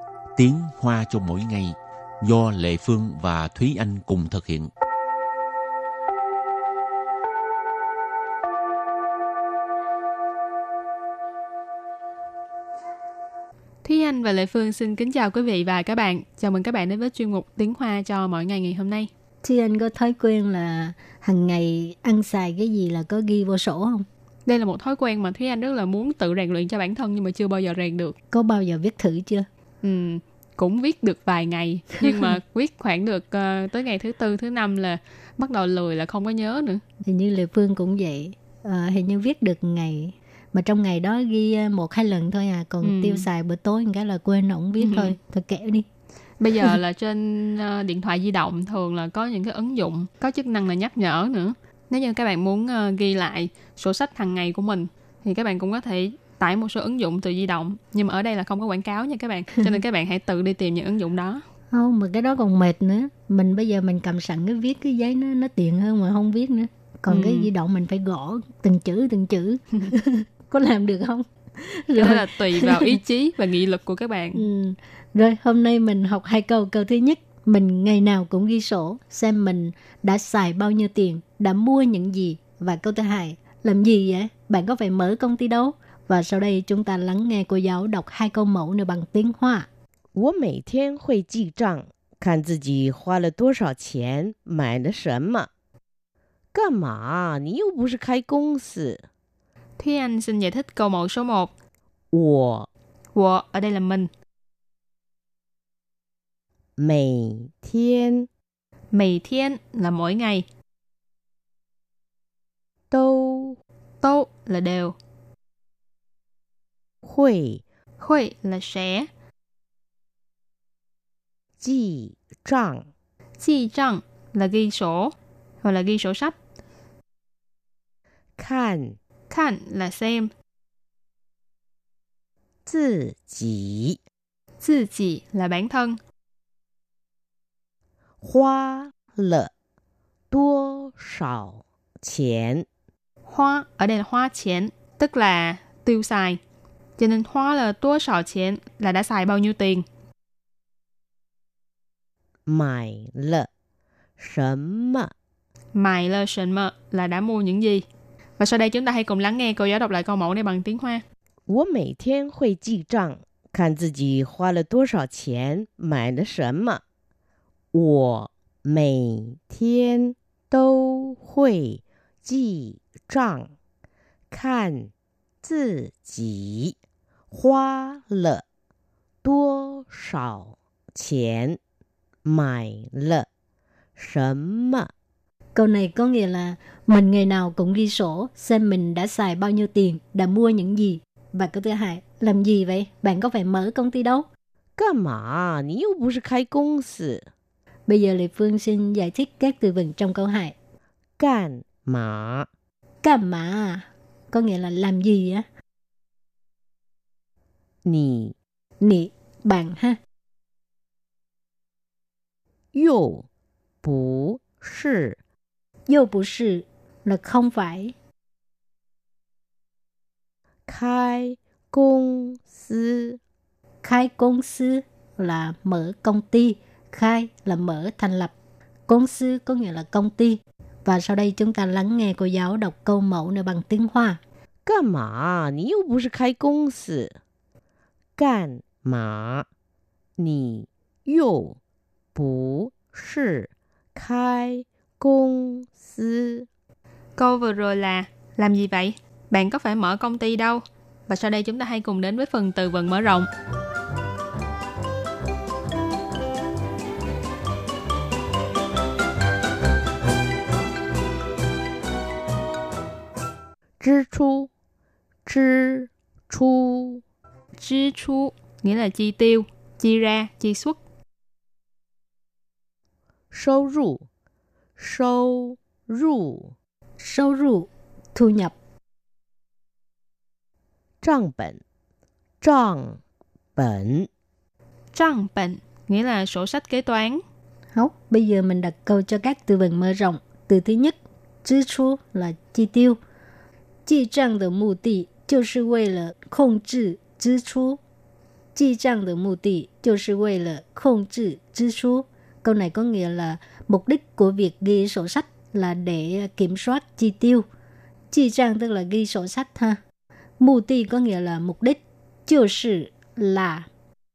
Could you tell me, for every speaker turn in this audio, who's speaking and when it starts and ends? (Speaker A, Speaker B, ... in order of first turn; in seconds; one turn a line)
Speaker A: 0.4-4.7
Speaker B: 13.8-19.1
Speaker C: 19.4-24.1
Speaker B: 24.5-28.1
Speaker C: 28.3-29.5
Speaker B: 29.8-36.8
Speaker C: 37.1-45.9
Speaker B: 42.8-43.2
Speaker B: 44.8-45.2
Speaker B: 46.4-61.4
Speaker C: 61.7-73.0
Speaker B: 67.1-67.5
Speaker B: 72.0-74.4
Speaker C: 74.3-89.7
Speaker D: 90.1-95.5
Speaker D: 96.5-99.0
Speaker B: 99.8-101.5
Speaker D: 102.1-102.7
Speaker B: 103.1-104.1
Speaker D: 106.8-108.3
Speaker B: 108.9-110.5
Speaker D: 112.9-113.6
Speaker B: 114.0-115.0
Speaker D: 117.0-117.6
Speaker B: 118.0-119.1
Speaker D: 121.6-122.9
Speaker B: 123.4-126.3
Speaker D: 128.4-129.0
Speaker B: 129.3-130.3
Speaker D: 132.7-134.0
Speaker B: 134.6-136.0
Speaker D: 138.2-139.5
Speaker D: 140.3-142.7
Speaker B: 143.2-146.4
Speaker B: 147.0-149.8
Speaker D: 152.4-153.5
Speaker D: 154.2-155.1
Speaker B: 155.7-157.8
Speaker B: 158.4-161.0
Speaker D: 161.5-166.8
Speaker D: 167.7-173.5
Speaker D: 174.3-174.9
Speaker D: 175.4-176.8
Speaker D: 177.3-178.4
Speaker D: 179.2-181.6
Speaker D: 182.2-183.2
Speaker D: 183.9-184.9
Speaker C: 185.5-194.3
Speaker D: 194.8-197.2
Speaker C: 197.9-200.5
Speaker D: 201.2-202.5
Speaker C: 203.0-205.4
Speaker D: 207.8-208.3
Speaker C: 208.8-210.0
Speaker D: 212.7-213.3
Speaker D: 213.8-215.2
Speaker C: 215.9-217.9
Speaker D: 220.7-223.2
Speaker C: 223.8-228.3
Speaker C: 228.9-234.2
Speaker D: 234.7-237.2
Speaker D: 238.2-239.5
Speaker D: 240.2-241.6
Speaker D: 242.2-246.5
Speaker B: 247.2-253.3
Speaker D: 263.8-264.5
Speaker D: 265.3-267.0
Speaker B: 267.6-270.8
Speaker D: 273.3-274.1
Speaker D: 274.8-276.6
Speaker C: 277.0-278.6
Speaker D: 281.0-281.6
Speaker D: 282.4-283.0
Speaker D: 283.6-284.1
Speaker B: 284.9-287.2
Speaker C: 287.7-293.0
Speaker C: 293.9-297.8
Speaker C: 298.6-307.4
Speaker C: 308.1-309.8
Speaker C: 310.4-313.7